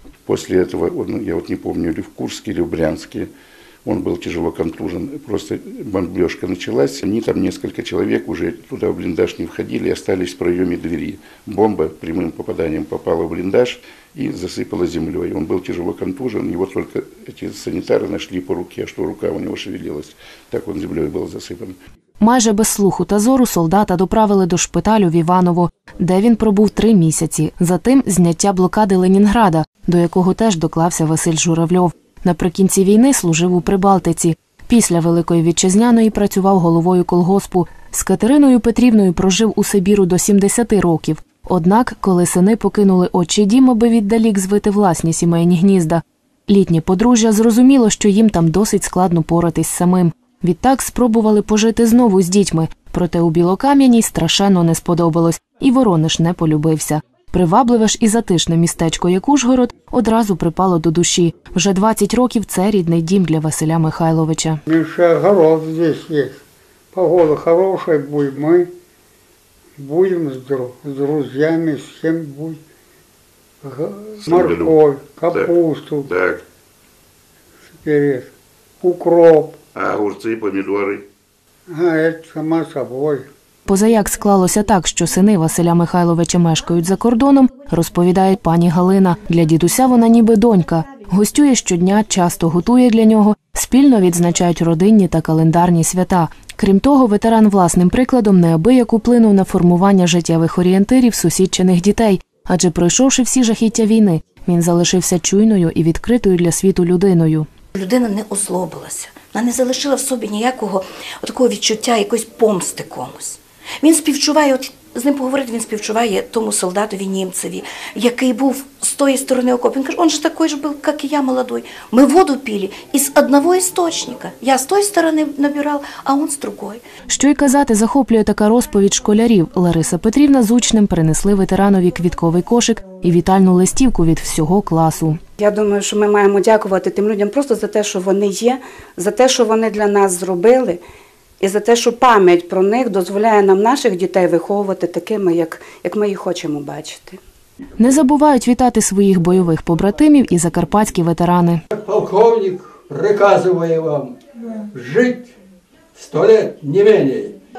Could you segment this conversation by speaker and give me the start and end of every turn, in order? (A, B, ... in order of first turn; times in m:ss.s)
0:00.3-0:03.3 A
0:03.8-0:21.8 A
0:22.2-1:04.6 B
1:04.7-1:06.4 C
1:06.9-1:08.7 C
1:09.8-1:12.6 C
1:13.6-1:16.1 C
1:14.2-1:14.8 A
1:16.1-1:16.4 A
1:17.8-1:18.3 C
1:18.8-1:19.6 C
1:19.8-1:21.1 A
1:21.7-1:23.3 C
1:23.7-1:47.5 B
1:47.8-2:06.8 D
2:07.1-2:15.2 B
2:15.4-2:20.8 E
2:21.4-2:27.2 E
2:27.8-2:31.6 B
2:31.7-2:34.2 F
2:34.7-2:35.3 F
2:36.0-2:37.4 F